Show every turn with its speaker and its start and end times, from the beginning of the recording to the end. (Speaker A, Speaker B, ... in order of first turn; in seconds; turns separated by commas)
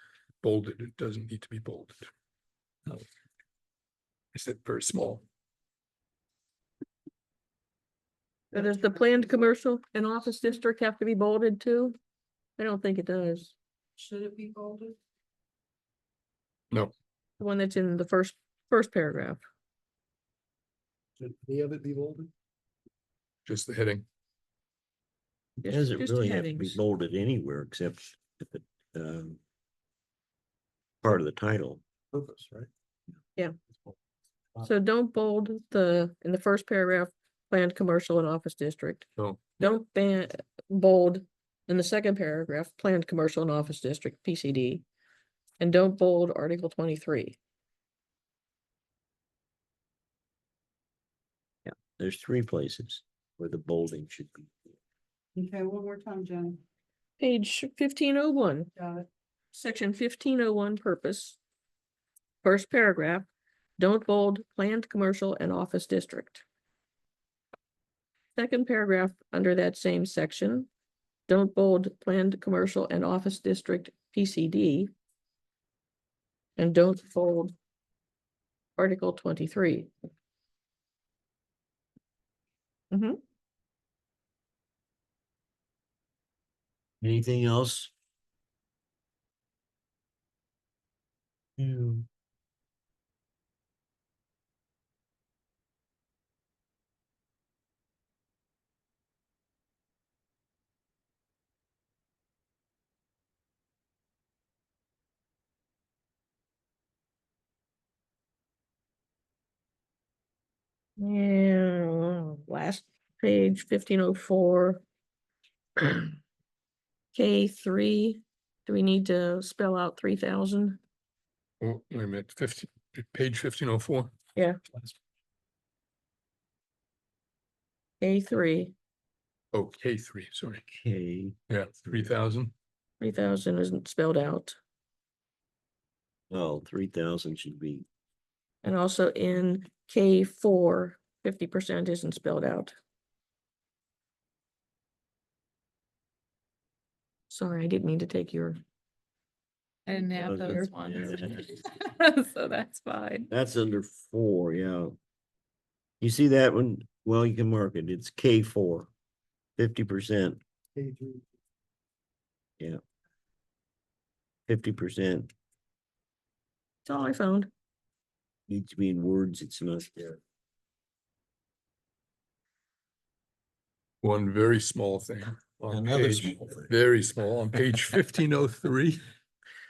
Speaker A: 0.4-2.0, Speaker A: 4.3-5.2, Speaker B: 8.5-11.9, Speaker C: 8.5-9.4, Speaker B: 12.6-13.5, Speaker C: 14.0-15.0, Speaker B: 17.4-19.4, Speaker D: 21.2-22.3, Speaker A: 23.4-24.1, Speaker E: 25.6-29.4, Speaker B: 25.6-26.8, Speaker E: 31.0-31.8, Speaker D: 32.1-32.7, Speaker B: 34.6-39.0, Speaker A: 39.2-39.4, Speaker B: 39.6-44.8, Speaker B: 45.6-47.4, Speaker E: 51.7-54.7, Speaker C: 55.4-56.6, Speaker B: 57.2-58.7, Speaker C: 58.8-59.0, Speaker B: 59.5-61.4, Speaker B: 62.4-66.4, Speaker B: 68.4-70.7, Speaker B: 71.3-74.9, Speaker B: 76.6-77.5, Speaker B: 78.8-79.9, Speaker B: 82.9-83.2, Speaker E: 87.0-87.9, Speaker E: 91.6-92.1, Speaker B: 111.0-114.8, Speaker B: 115.8-116.1, Speaker B: 117.2-120.8, Speaker A: 121.6-124.2, Speaker B: 128.0-128.7, Speaker A: 129.5-130.6, Speaker E: 130.7-131.4, Speaker A: 131.5-132.5, Speaker B: 133.0-134.6, Speaker E: 136.3-137.9, Speaker B: 138.6-142.7, Speaker B: 147.3-148.6, Speaker F: 149.9-153.3, Speaker E: 150.2-151.4, Speaker E: 153.3-154.9, Speaker E: 156.0-158.9, Speaker E: 159.6-160.4, Speaker D: 160.8-161.2, Speaker E: 164.5-165.3, Speaker B: 166.9-167.5, Speaker E: 168.5-170.2, Speaker A: 174.0-179.0, Speaker E: 175.7-176.7